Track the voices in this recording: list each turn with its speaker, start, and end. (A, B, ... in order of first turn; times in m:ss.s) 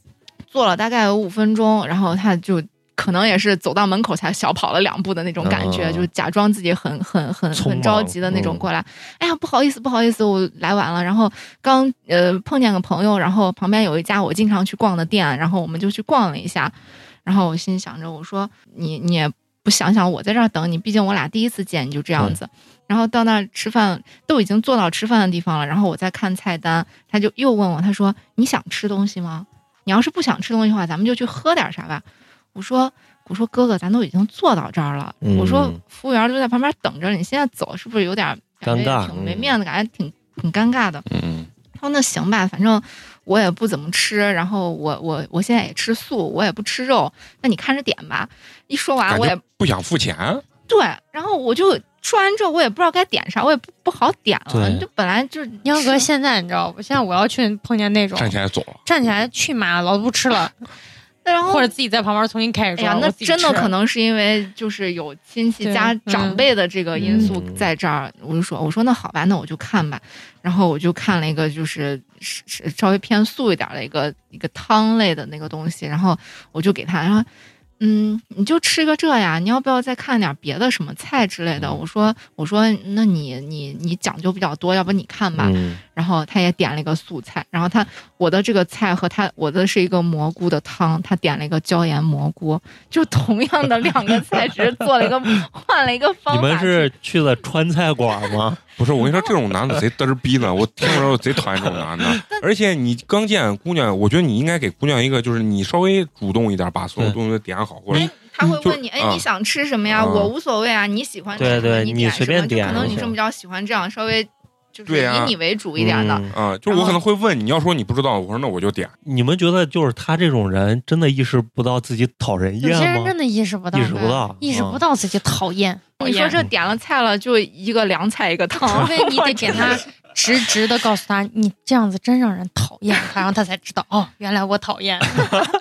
0:00.5-0:41.0 A
0:05.4-0:06.1 B
0:07.5-0:08.7 B
0:35.2-0:35.8 B
0:38.6-0:39.6 B
0:41.1-0:41.5 C
0:41.8-0:49.4 A
0:49.1-0:50.4 C
0:50.7-0:56.1 A
0:54.5-0:54.9 B
0:55.6-1:00.6 D
0:58.2-0:58.8 C
1:01.2-1:01.7 A
1:01.5-1:03.7 D
1:02.8-1:17.3 A
1:05.6-1:06.4 D
1:07.0-1:07.7 B
1:07.0-1:07.3 D
1:17.8-1:36.9 A
1:25.4-1:25.8 B
1:36.3-1:38.6 B
1:38.8-1:49.2 C
1:40.8-1:42.1 B
1:47.9-1:57.0 A
1:49.9-1:50.3 C
1:51.4-1:53.2 B
1:51.4-1:51.7 C
1:52.6-1:53.0 C
1:54.9-1:55.3 C
1:55.8-1:56.3 B
1:56.3-1:58.9 C
1:59.0-2:03.1 B
2:02.6-2:06.4 D
2:03.7-2:04.8 B
2:03.9-2:04.3 A
2:06.0-2:09.8 A
2:08.7-2:15.4 D